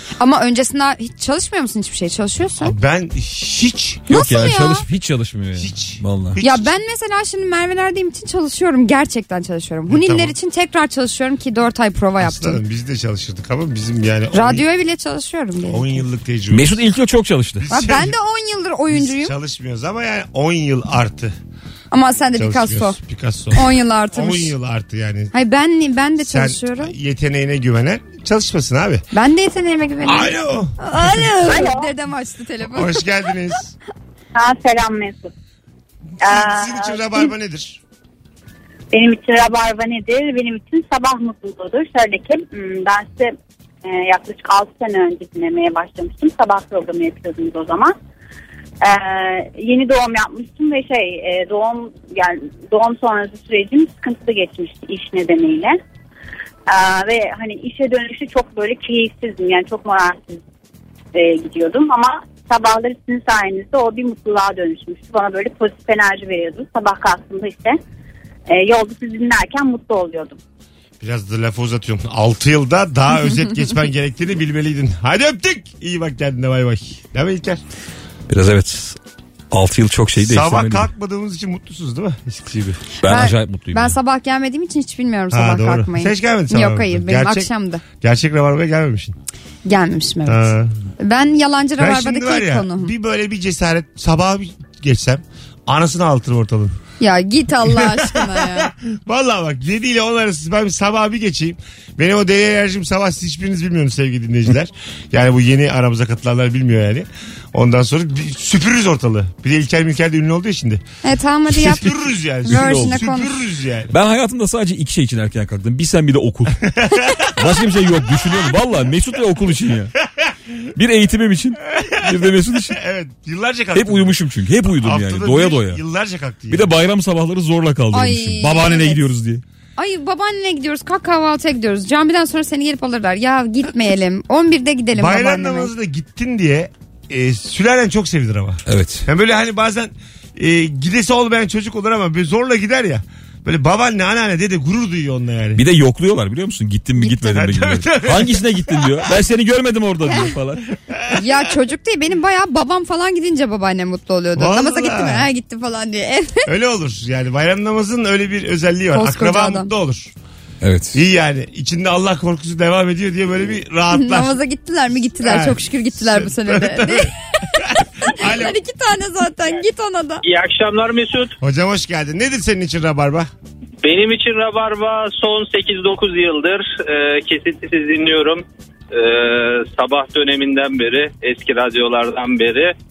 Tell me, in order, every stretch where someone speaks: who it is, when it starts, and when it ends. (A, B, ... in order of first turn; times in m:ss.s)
0:00.2-0:02.8 A
0:02.6-0:04.1 B
0:04.1-0:06.4 C
0:04.1-0:04.9 A
0:05.6-0:06.7 B
0:06.4-0:12.6 A
0:09.9-0:10.4 B
0:12.2-0:14.6 B
0:14.3-0:16.0 A
0:15.7-0:16.8 B
0:16.5-0:17.6 C
0:17.6-0:18.2 B
0:17.7-0:19.4 A
0:18.9-0:21.4 B
0:21.9-0:23.0 A
0:22.4-0:25.3 B
0:23.5-0:24.6 A
0:25.3-0:26.9 A
0:26.2-0:29.0 B
0:29.1-0:33.0 A
0:30.0-0:31.4 B
0:31.5-0:31.8 D
0:32.6-0:33.7 B
0:34.4-0:35.3 D
0:36.2-0:37.3 D
0:36.2-0:37.8 B
0:38.9-0:43.3 D
0:43.8-0:48.0 D
0:48.8-0:55.8 D
0:56.7-1:00.4 D
1:01.1-1:07.8 D
1:08.5-1:10.4 D
1:11.0-1:17.6 B
1:18.3-1:19.0 C
1:19.5-1:20.9 C
1:20.2-1:22.7 B
1:22.6-1:24.0 C
1:23.0-1:27.8 A
1:25.3-1:29.2 B
1:29.6-1:32.9 A
1:30.3-1:30.8 B
1:31.8-1:36.8 B
1:37.0-1:38.7 A
1:37.6-1:50.8 B
1:51.0-1:51.9 A
1:51.5-1:53.9 B
1:52.4-1:53.3 A
1:52.5-1:53.0 C
1:53.9-1:56.7 C
1:56.8-1:58.5 B
1:57.4-1:59.9 C
2:00.1-2:00.7 B
2:00.8-2:02.8 C
2:01.7-2:04.2 B
2:03.8-2:05.8 C
2:04.8-2:06.7 B
2:06.5-2:09.4 C
2:07.9-2:09.0 A
2:09.8-2:15.7 A
2:15.0-2:25.6 B
2:18.7-2:19.0 C
2:25.6-2:30.6 C
2:27.2-2:29.1 B
2:30.1-2:30.4 A
2:30.9-2:31.2 B
2:31.1-2:36.4 A
2:34.4-2:35.3 B
2:36.5-2:40.1 B
2:38.9-2:39.7 A
2:40.6-2:41.0 C
2:40.9-2:44.4 B
2:43.9-2:47.1 A
2:45.2-2:48.6 B
2:48.1-2:50.2 A
2:50.2-2:51.4 E
2:51.4-2:53.3 B
2:53.8-3:02.7 E